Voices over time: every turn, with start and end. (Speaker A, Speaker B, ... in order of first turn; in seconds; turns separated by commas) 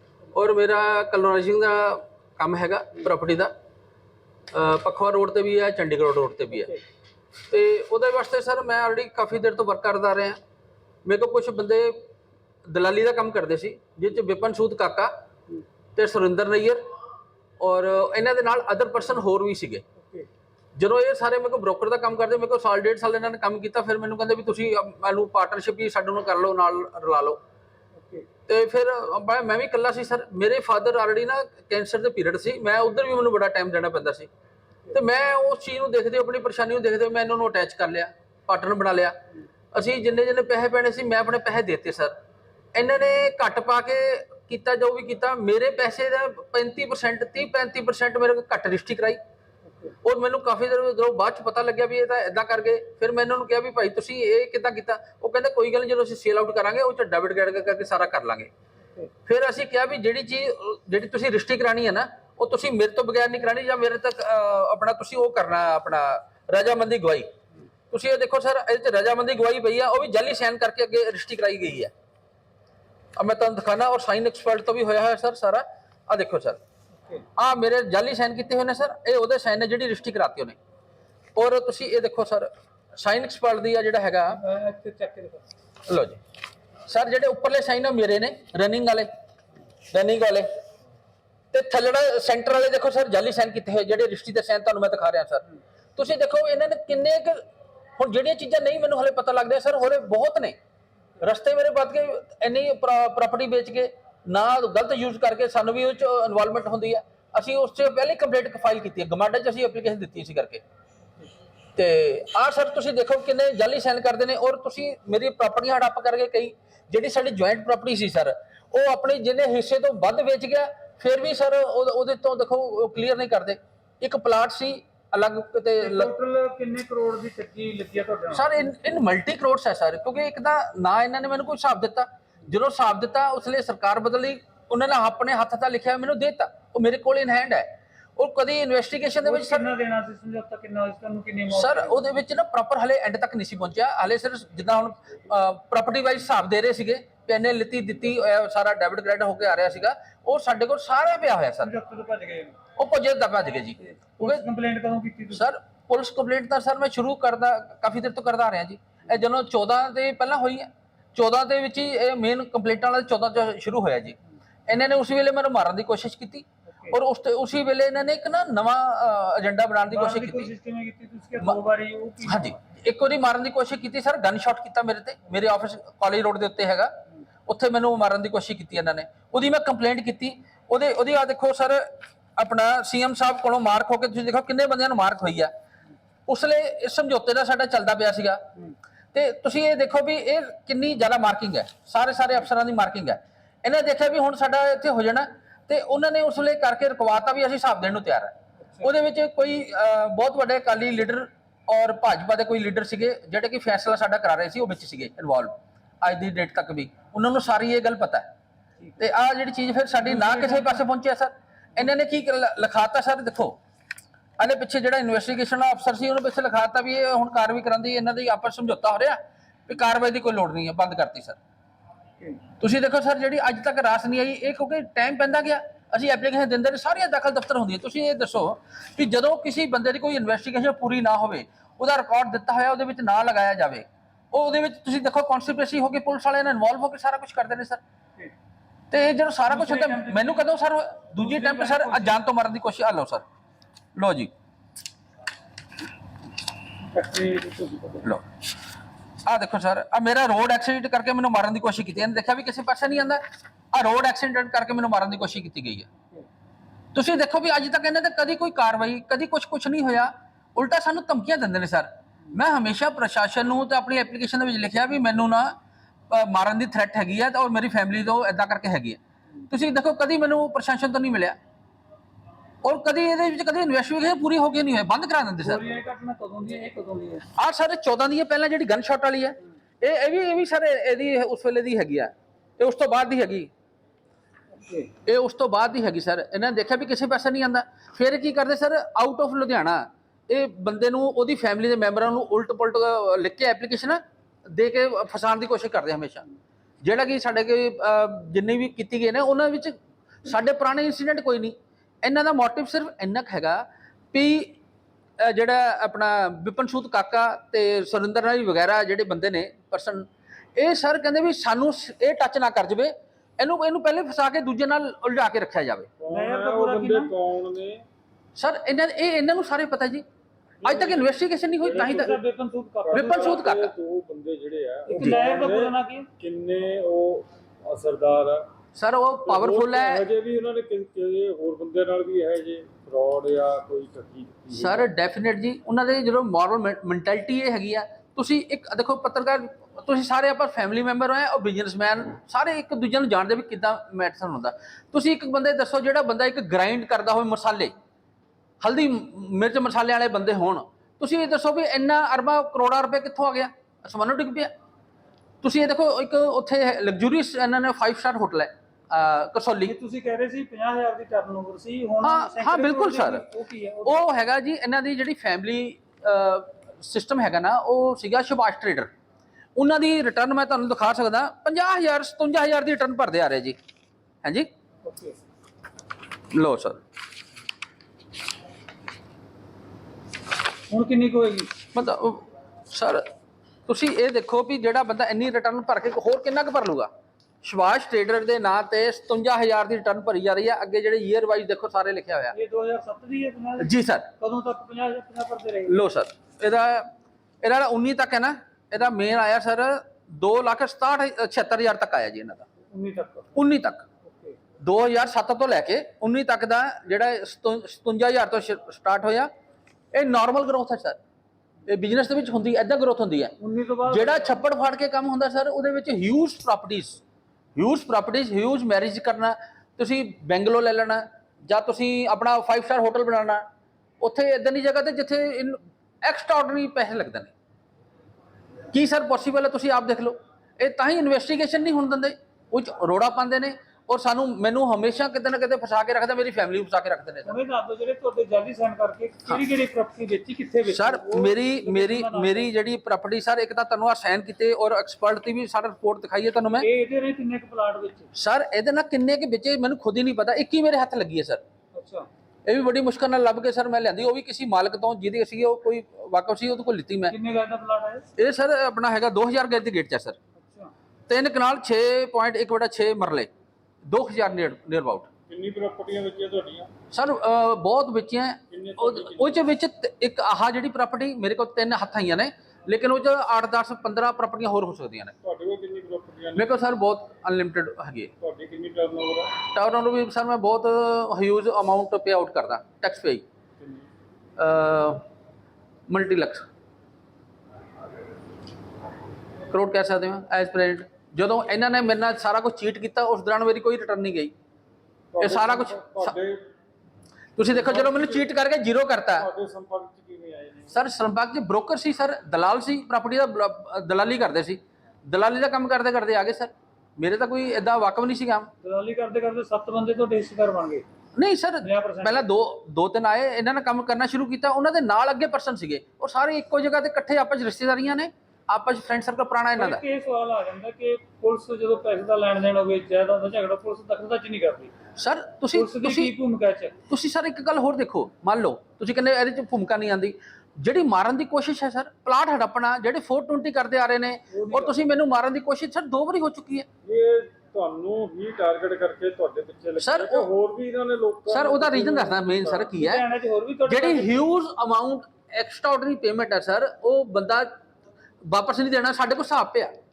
Speaker A: 0.3-3.5, Speaker A: 4.5-6.7, Speaker A: 7.5-10.4, Speaker A: 11.0-12.0, Speaker A: 12.7-15.1, Speaker A: 15.9-16.8, Speaker A: 17.6-19.8, Speaker B: 20.0-20.3, Speaker A: 20.8-27.4, Speaker B: 28.0-28.3, Speaker A: 28.4-34.3, Speaker A: 34.9-39.1, Speaker A: 39.7-42.1, Speaker A: 42.7-49.2, Speaker B: 49.7-49.9, Speaker A: 50.0-58.5, Speaker A: 59.2-67.3, Speaker A: 67.9-71.9, Speaker A: 73.2-76.6, Speaker A: 77.3-80.6, Speaker A: 81.3-84.4, Speaker B: 84.4-85.4, Speaker A: 85.9-86.2, Speaker A: 86.8-89.1, Speaker A: 89.9-90.5, Speaker A: 91.5-95.4, Speaker A: 96.0-97.4, Speaker A: 98.0-100.5, Speaker A: 101.2-110.6, Speaker A: 111.8-126.1, Speaker B: 125.8-128.6, Speaker A: 128.3-139.7, Speaker B: 139.2-142.1, Speaker A: 141.5-151.7, Speaker B: 151.6-152.6, Speaker A: 152.7-154.4, Speaker B: 153.9-155.4, Speaker A: 155.3-170.5, Speaker B: 169.9-172.5, Speaker A: 172.2-176.9, Speaker A: 177.5-185.5, Speaker A: 186.3-188.4, Speaker A: 189.1-208.3, Speaker A: 209.0-213.6, Speaker B: 210.1-210.8, Speaker A: 214.4-221.4, Speaker A: 222.5-237.8, Speaker A: 238.9-243.2, Speaker B: 239.5-240.4, Speaker B: 241.2-242.2, Speaker A: 243.9-244.3, Speaker B: 246.9-248.1, Speaker A: 249.2-255.9, Speaker A: 256.9-265.5, Speaker A: 266.1-271.4, Speaker A: 272.6-275.6, Speaker B: 275.4-277.2, Speaker A: 277.3-283.5, Speaker B: 284.5-284.9, Speaker A: 285.0-296.2, Speaker A: 296.8-304.6, Speaker A: 305.2-315.9, Speaker C: 316.0-317.8, Speaker B: 316.1-317.1, Speaker A: 318.4-320.0, Speaker C: 320.6-322.1, Speaker A: 320.6-322.1, Speaker B: 321.8-323.4, Speaker C: 322.8-328.4, Speaker A: 322.9-323.7, Speaker B: 324.9-326.1, Speaker A: 328.7-330.0, Speaker C: 329.2-334.9, Speaker A: 334.5-347.7, Speaker A: 348.6-354.5, Speaker A: 355.4-359.7, Speaker B: 359.6-364.0, Speaker A: 362.0-363.2, Speaker A: 363.8-368.9, Speaker A: 369.6-373.6, Speaker B: 374.8-375.2, Speaker A: 376.3-376.8, Speaker B: 380.7-381.5, Speaker A: 381.7-383.1, Speaker A: 383.7-386.9, Speaker A: 387.4-392.3, Speaker B: 392.3-395.8, Speaker A: 393.6-394.1, Speaker A: 395.7-396.9, Speaker A: 397.4-402.5, Speaker B: 402.6-403.3, Speaker A: 403.3-403.9, Speaker B: 404.0-404.4, Speaker A: 404.6-409.3, Speaker A: 409.9-411.0, Speaker A: 411.7-413.3, Speaker B: 413.4-414.4, Speaker A: 413.9-417.0, Speaker A: 417.6-423.4, Speaker A: 424.0-427.3, Speaker A: 428.7-437.4, Speaker B: 437.2-442.5, Speaker A: 440.6-446.7, Speaker B: 446.6-448.1, Speaker A: 448.1-451.4, Speaker B: 451.7-452.1, Speaker A: 452.4-457.1, Speaker B: 457.1-458.0, Speaker A: 458.1-460.2, Speaker B: 460.4-460.7, Speaker A: 461.1-463.3, Speaker A: 463.9-465.1, Speaker C: 465.3-466.7, Speaker A: 466.9-475.1, Speaker C: 468.5-469.4, Speaker C: 475.2-476.5, Speaker A: 476.3-478.1, Speaker C: 478.2-479.3, Speaker A: 479.4-483.2, Speaker C: 483.6-483.9, Speaker A: 484.4-485.0, Speaker A: 485.9-486.4, Speaker A: 489.5-494.3, Speaker C: 495.1-496.5, Speaker A: 495.2-496.2, Speaker A: 497.4-499.3, Speaker C: 497.5-498.3, Speaker C: 499.1-500.7, Speaker A: 500.7-508.5, Speaker B: 508.6-510.8, Speaker A: 511.1-519.8, Speaker B: 511.6-512.2, Speaker B: 519.5-524.7, Speaker A: 525.0-526.1, Speaker B: 525.5-526.7, Speaker A: 526.9-536.6, Speaker B: 534.3-534.8, Speaker C: 536.8-542.6, Speaker A: 539.8-540.3, Speaker A: 541.3-543.0, Speaker B: 542.6-544.3, Speaker A: 543.7-547.5, Speaker A: 548.2-549.7